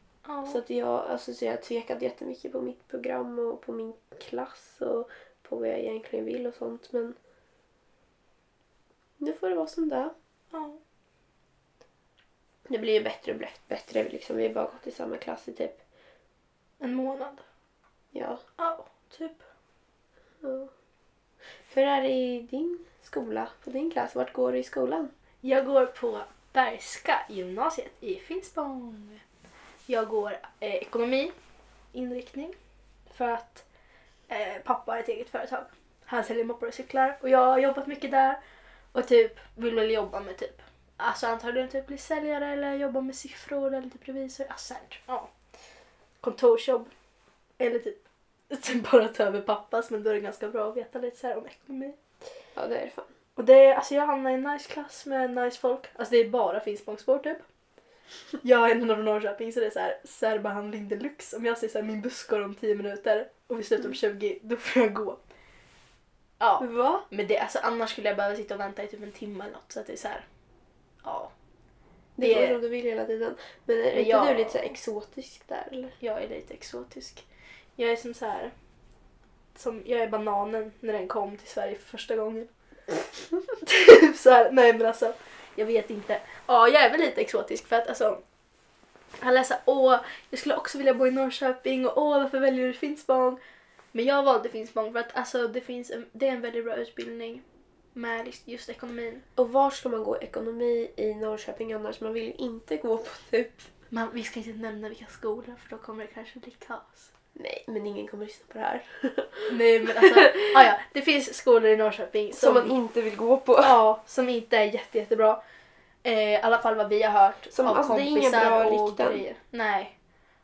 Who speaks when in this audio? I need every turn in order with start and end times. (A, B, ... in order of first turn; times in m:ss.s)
0:00.2-0:00.6 A
0:00.4-0:07.2 B
0:09.2-0:10.1 B
0:10.5-0:10.8 A
0:12.7-0:15.8 B
0:16.8-0:17.4 A
0:18.1-0:18.4 B
0:18.6-0:19.4 A
0:20.4-0:20.7 B
0:21.6-0:25.1 B
0:25.4-0:29.2 A
0:29.9-0:31.3 A
0:31.9-0:32.6 A
0:33.1-0:33.6 A
0:34.3-0:38.4 A
0:38.9-0:45.3 A
0:46.2-0:46.9 A
0:47.6-0:52.0 A
0:52.5-0:53.1 B
0:53.4-0:57.4 A
0:58.4-1:05.2 A
1:06.4-1:10.2 A
1:06.6-1:07.0 B
1:11.0-1:11.3 A
1:12.2-1:15.9 B
1:12.2-1:12.6 A
1:13.9-1:14.7 A
1:16.0-1:17.2 A
1:17.8-1:18.5 A
1:19.5-1:22.5 A
1:23.6-1:28.2 A
1:29.2-1:33.4 A
1:33.9-1:37.4 A
1:37.9-1:39.2 A
1:39.4-1:43.7 B
1:43.9-1:47.1 A
1:47.3-1:50.7 B
1:49.5-1:52.7 A
1:52.3-1:53.8 B
1:53.6-1:55.4 A
1:56.0-1:59.9 A
1:57.5-1:59.2 B